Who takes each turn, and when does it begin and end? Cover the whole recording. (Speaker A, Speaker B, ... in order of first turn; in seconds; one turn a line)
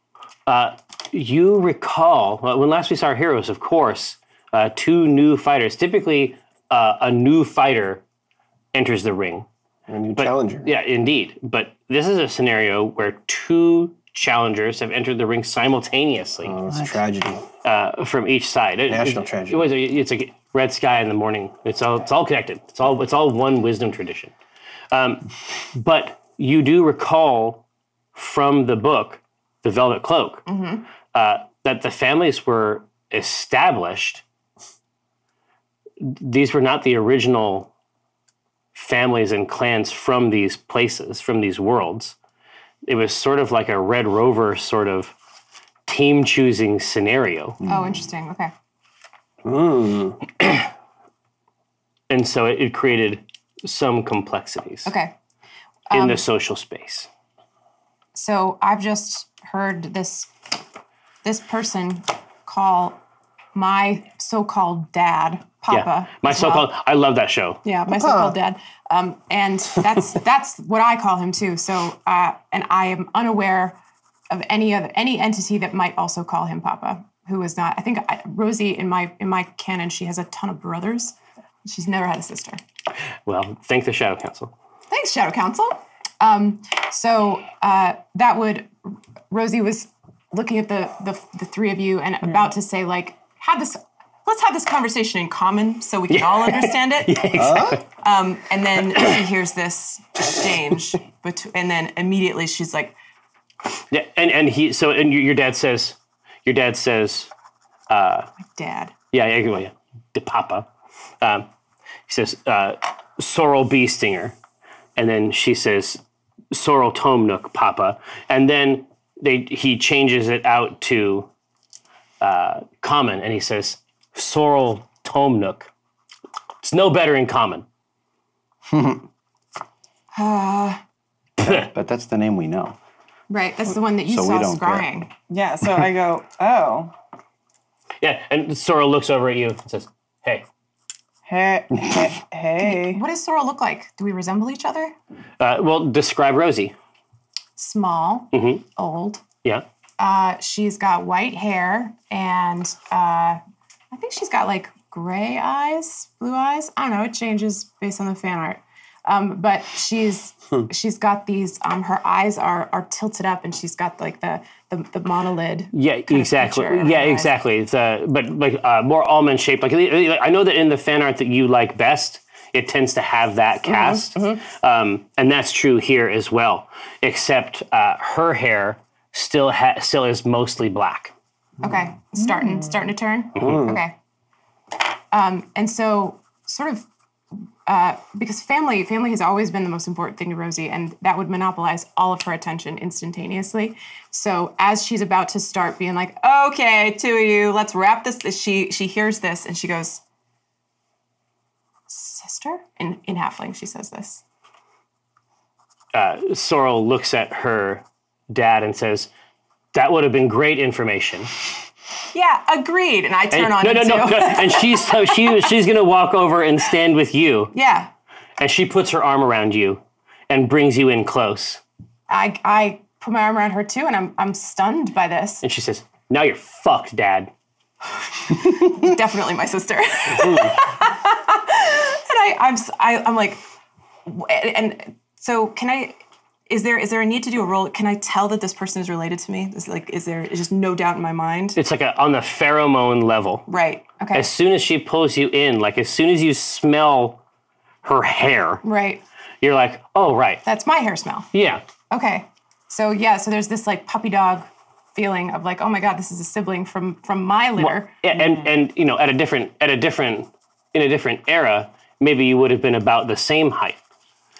Speaker A: 0.5-8.0
Speaker A: 8.7-9.5
Speaker B: 9.9-10.7
Speaker A: 10.2-16.6
Speaker B: 16.4-17.4
Speaker C: 16.7-17.0
Speaker A: 17.6-24.3
Speaker B: 18.9-19.7
Speaker A: 24.9-27.6
Speaker A: 28.1-30.4
Speaker D: 30.5-30.8
Speaker A: 31.1-34.2
Speaker A: 36.0-37.7
Speaker A: 38.7-42.1
Speaker A: 42.8-45.1
Speaker A: 45.9-47.6
Speaker C: 47.6-48.0
Speaker D: 47.6-48.5
Speaker B: 49.4-50.2
Speaker A: 50.4-50.6
Speaker A: 52.1-54.9
Speaker D: 54.9-55.1
Speaker D: 55.9-56.2
Speaker A: 55.9-57.1
Speaker D: 58.1-60.3
Speaker D: 61.2-63.0
Speaker D: 63.5-66.7
Speaker A: 65.7-67.6
Speaker D: 67.6-73.8
Speaker D: 74.3-82.6
Speaker A: 83.2-84.5
Speaker D: 84.9-97.4
Speaker A: 96.1-97.8
Speaker C: 97.3-97.8
Speaker D: 98.0-102.9
Speaker A: 103.9-107.3
Speaker A: 107.9-108.3
Speaker D: 108.5-108.9
Speaker A: 109.1-110.7
Speaker A: 111.2-111.5
Speaker A: 112.1-114.3
Speaker A: 115.0-116.0
Speaker A: 116.5-121.3
Speaker A: 122.2-125.7
Speaker A: 126.6-127.6
Speaker C: 128.7-129.0
Speaker D: 130.1-130.8
Speaker A: 131.4-131.7
Speaker C: 131.4-132.8
Speaker D: 133.3-135.1
Speaker C: 134.1-134.9
Speaker E: 135.3-136.9
Speaker A: 138.0-140.4
Speaker E: 141.3-143.0
Speaker D: 142.6-144.9
Speaker A: 145.4-146.7
Speaker D: 147.6-149.2
Speaker A: 148.3-148.6
Speaker D: 150.0-153.4
Speaker D: 153.9-167.3
Speaker A: 165.7-181.1
Speaker D: 173.7-174.4
Speaker D: 181.6-183.9
Speaker E: 182.2-182.8
Speaker A: 183.3-183.7
Speaker B: 183.4-183.8
Speaker D: 185.1-186.8
Speaker D: 187.7-200.0
Speaker D: 201.9-204.2
Speaker A: 205.9-209.1
Speaker A: 209.7-211.3
Speaker D: 212.1-215.2
Speaker A: 213.3-217.5
Speaker D: 217.5-217.9
Speaker A: 218.4-221.6
Speaker D: 222.1-225.4
Speaker A: 225.4-227.3
Speaker D: 228.3-233.4
Speaker D: 234.1-235.9
Speaker D: 236.5-241.6
Speaker A: 241.6-243.4
Speaker D: 243.5-244.3
Speaker A: 244.1-247.2
Speaker A: 247.8-248.6
Speaker D: 248.6-249.0
Speaker A: 249.4-250.4
Speaker D: 250.4-251.3
Speaker A: 251.3-251.6
Speaker D: 251.9-258.0
Speaker A: 257.6-263.8